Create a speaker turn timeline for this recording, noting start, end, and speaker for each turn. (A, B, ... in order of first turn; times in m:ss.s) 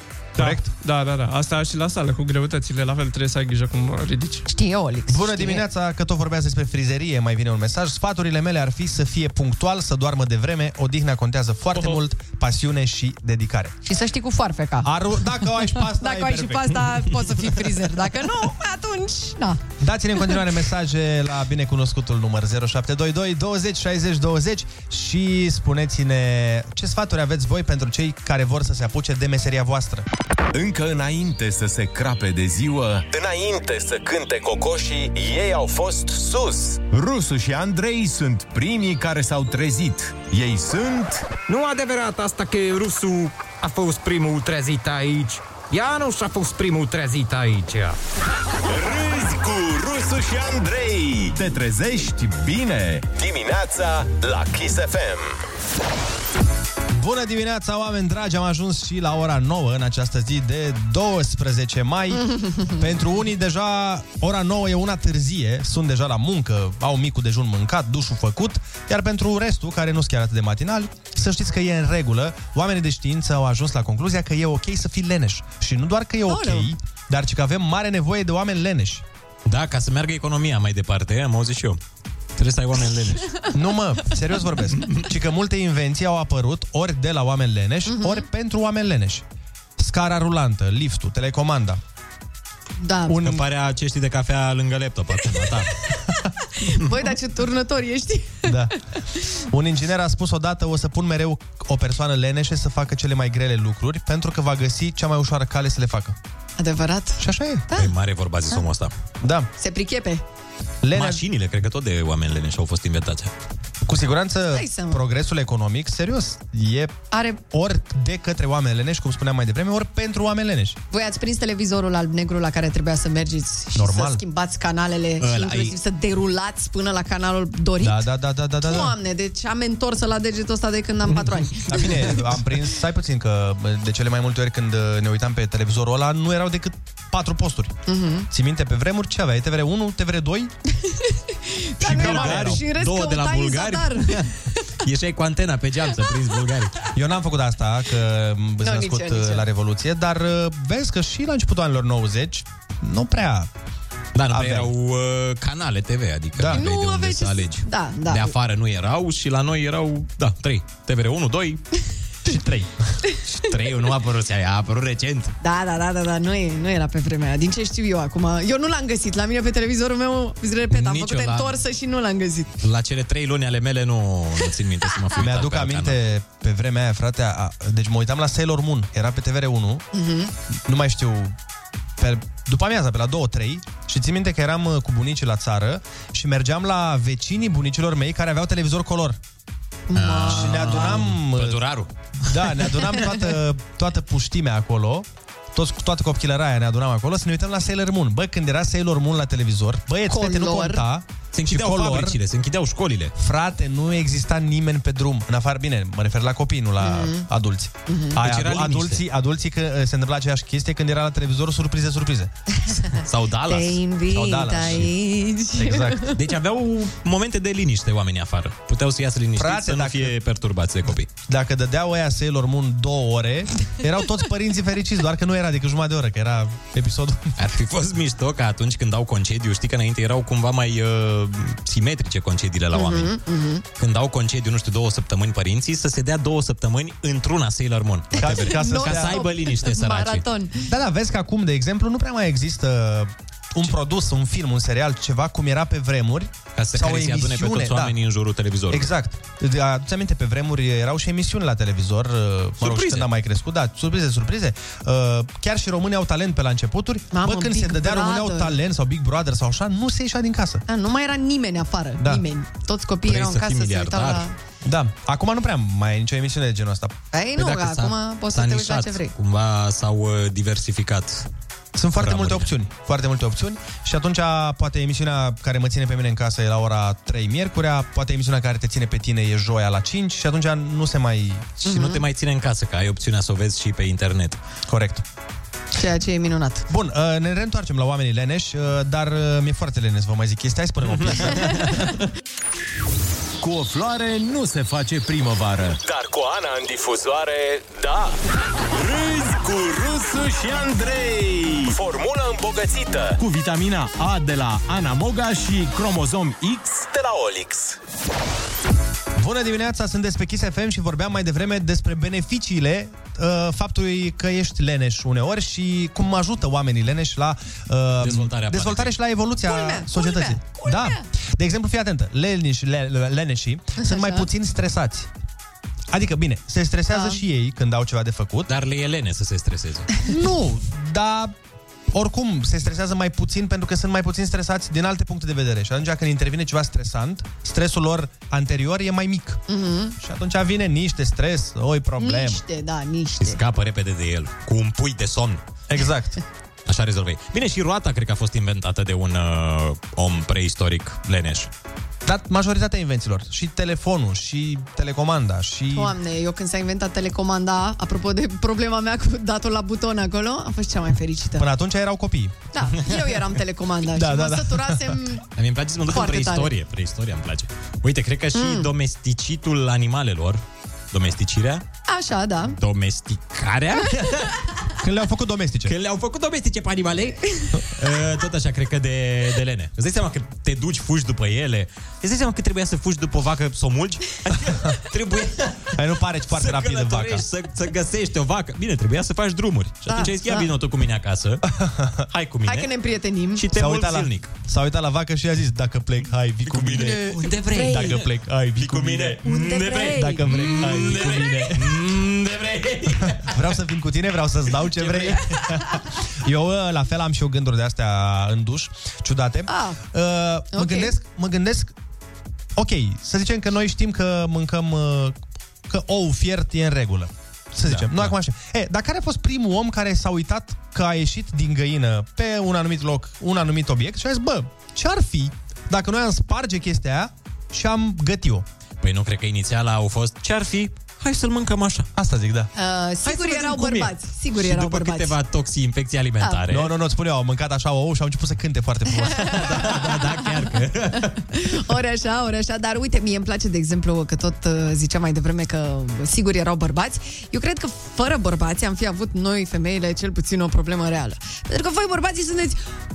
0:00.4-0:04.4 A
0:00.4-0:00.7 B
0:04.5-0:05.6 C
0:05.1-0:13.7 B
0:13.8-0:14.9 C
0:14.8-0:16.9 B
0:15.7-0:19.6 C
0:19.8-0:30.0 B
0:30.5-0:33.0 D
0:33.1-0:36.8 E
0:36.8-0:41.3 D
0:41.5-0:48.0 F
0:48.7-0:49.9 E
0:48.9-0:53.1 D
0:53.1-0:55.4 E
0:56.9-1:19.0 B
1:02.3-1:02.7 C
1:16.3-1:16.7 C
1:19.4-1:21.8 G
1:22.4-1:23.3 G
1:23.5-1:29.2 B
1:27.9-1:28.2 C
1:29.8-1:31.8 B
1:32.8-1:33.2 C
1:33.1-1:33.4 B
1:33.2-1:35.8 G
1:36.6-1:38.7 C
1:38.4-1:38.7 B
1:39.4-1:46.2 B
1:46.6-1:47.9 C
1:47.2-1:47.7 B
1:47.8-1:48.9 G
1:49.2-1:49.5 B
1:49.6-1:50.2 C
1:50.8-1:51.2 B
1:50.9-1:53.3 G
1:53.8-1:57.0 B
1:54.5-1:55.0 C
1:57.1-1:57.4 C
1:57.5-2:00.8 B
2:00.9-2:08.0 C
2:03.7-2:04.2 B
2:05.2-2:05.7 G
2:07.8-2:08.9 B
2:08.6-2:12.1 C
2:11.7-2:17.7 B
2:17.9-2:18.3 C
2:18.3-2:20.5 B
2:21.0-2:24.3 C
2:21.8-2:22.6 B
2:21.8-2:26.8 G
2:26.9-2:33.5 B
2:28.6-2:29.4 C
2:34.1-2:41.6 G
2:34.3-2:34.7 B
2:36.3-2:36.6 B
2:36.5-2:38.3 C
2:42.3-2:42.7 B
2:43.2-2:45.3 G
2:45.4-2:52.6 C
2:50.7-2:51.6 G
2:52.6-2:56.0 G
2:55.2-2:59.8 B
2:59.9-3:00.3 C
3:00.6-3:01.3 B
3:02.0-3:09.2 B
3:09.9-3:11.0 C
3:09.9-3:11.9 G
3:10.3-3:11.6 B
3:12.2-3:22.2 B
3:20.1-3:20.8 C
3:21.3-3:23.1 G
3:23.2-3:32.3 B
3:26.8-3:27.3 C
3:27.9-3:28.2 C
3:28.2-3:29.0 G
3:33.0-3:33.8 G
3:33.5-3:36.2 C
3:34.1-3:34.9 B
3:34.5-3:34.9 G
3:35.6-3:36.1 B
3:36.1-3:41.1 G
3:39.4-3:40.1 B
3:41.3-3:47.2 B
3:47.4-3:53.2 G
3:52.7-3:53.6 C
3:53.8-4:00.2 G
3:58.2-4:00.7 C
3:58.2-3:59.2 B
4:00.6-4:07.9 B
4:06.6-4:08.9 G
4:08.7-4:20.6 B
4:12.6-4:13.1 G
4:17.1-4:18.5 C
4:20.7-4:24.3 C
4:23.0-4:24.2 G
4:24.6-4:27.0 B
4:27.1-4:29.1 C
4:27.4-4:31.3 G
4:31.7-4:41.6 B
4:32.0-4:32.5 G
4:41.6-4:44.4 G
4:41.6-4:42.0 C
4:44.7-4:45.0 B
4:45.7-4:46.6 C
4:46.7-4:51.7 B
4:50.8-4:51.8 G
4:51.4-4:51.8 C
4:53.4-4:55.8 D
4:55.8-4:58.2 E
4:58.8-5:01.8 D
5:01.7-5:03.2 E
5:03.2-5:06.8 D
5:06.8-5:07.8 E
5:09.2-5:25.1 B
5:18.0-5:18.9 G
5:19.4-5:21.0 C
5:23.8-5:24.2 C
5:25.9-5:28.5 B
5:26.9-5:27.2 C
5:28.5-5:29.9 G
5:30.1-5:31.3 B
5:31.9-5:39.4 B
5:39.5-5:40.0 C
5:40.0-5:42.4 B
5:42.0-5:43.4 C
5:43.2-5:45.4 G
5:45.7-5:46.2 B
5:46.7-5:51.5 G
5:52.0-5:55.9 B
5:55.7-6:01.4 C
6:01.4-6:02.4 B
6:02.5-6:05.2 C
6:03.9-6:05.0 B
6:05.4-6:11.6 G
6:05.9-6:06.5 C
6:08.3-6:08.7 C
6:11.9-6:12.6 C
6:12.6-6:14.4 G
6:14.8-6:15.7 B
6:15.6-6:25.8 G
6:25.7-6:27.2 B
6:26.3-6:31.4 G
6:29.9-6:30.5 C
6:31.5-6:32.0 B
6:32.1-6:32.7 G
6:32.4-6:33.4 C
6:33.4-6:34.3 G
6:33.5-6:41.8 B
6:36.4-6:43.4 G
6:37.2-6:38.0 C
6:39.2-6:40.8 C
6:43.2-6:51.7 B
6:44.7-6:45.4 G
6:49.5-6:49.8 C
6:50.5-6:50.9 C
6:52.6-6:55.2 B
6:55.7-7:08.4 B
6:57.6-6:58.1 G
7:08.8-7:11.9 G
7:12.0-7:12.5 B
7:12.6-7:15.1 C
7:13.0-7:16.7 G
7:16.5-7:19.9 B
7:18.9-7:19.8 C
7:19.2-7:21.1 G
7:21.3-7:32.6 C